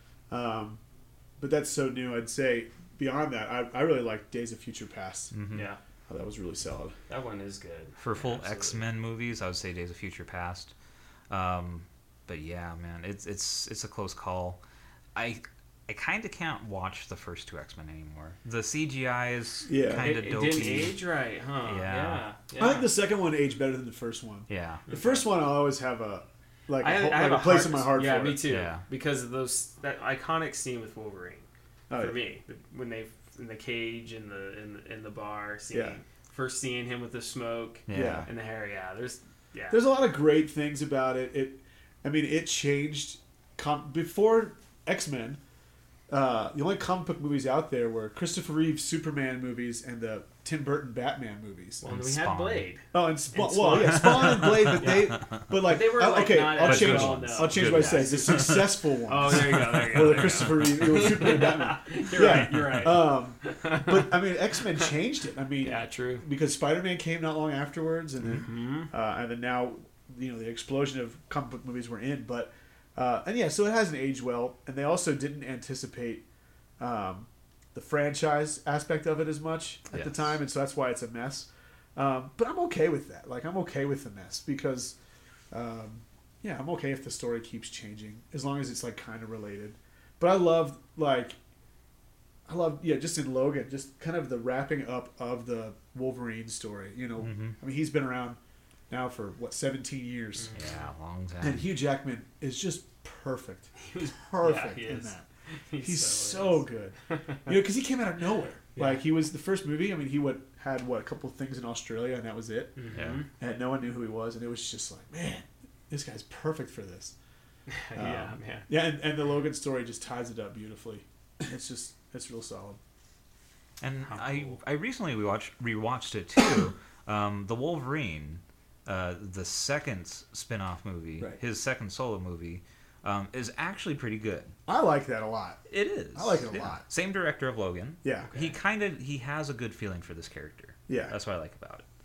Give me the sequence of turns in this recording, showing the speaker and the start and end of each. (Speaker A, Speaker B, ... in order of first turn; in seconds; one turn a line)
Speaker A: 0.3-0.8
Speaker A: 1.4-5.3
Speaker B: 5.3-5.7
Speaker C: 5.5-5.8
Speaker A: 6.1-7.0
Speaker C: 7.1-8.9
Speaker B: 8.0-10.7
Speaker B: 11.3-14.6
Speaker B: 15.2-21.0
Speaker A: 19.7-20.2
Speaker C: 20.0-22.9
Speaker B: 21.6-22.3
Speaker A: 22.6-28.5
Speaker B: 24.5-24.9
Speaker C: 24.9-25.2
Speaker C: 26.8-39.8
Speaker B: 28.4-28.8
Speaker A: 31.9-32.2
Speaker A: 35.7-36.0
Speaker B: 37.9-38.3
Speaker A: 37.9-38.3
Speaker A: 39.7-45.4
Speaker A: 46.1-51.8
Speaker C: 51.8-64.2
Speaker B: 51.8-52.7
Speaker A: 52.9-76.2
Speaker B: 53.8-55.4
Speaker B: 56.6-60.6
Speaker B: 62.2-62.8
Speaker C: 65.6-66.2
Speaker C: 68.3-68.9
Speaker A: 76.8-85.0
Speaker B: 79.9-80.4
Speaker A: 85.5-91.4
Speaker A: 92.5-98.4
Speaker B: 97.2-97.6
Speaker A: 98.9-100.5
Speaker C: 100.4-100.9
Speaker B: 100.5-101.7
Speaker A: 101.4-105.3
Speaker C: 103.8-107.6
Speaker A: 105.8-107.0
Speaker A: 107.5-112.8
Speaker C: 108.8-109.0
Speaker C: 112.8-113.3
Speaker B: 112.9-113.2
Speaker A: 113.4-117.2
Speaker C: 117.7-118.7
Speaker A: 118.0-122.8
Speaker B: 123.8-134.6
Speaker C: 124.1-124.6
Speaker A: 134.7-136.8
Speaker B: 135.7-141.8
Speaker A: 138.0-138.3
Speaker C: 138.2-138.6
Speaker A: 140.9-141.2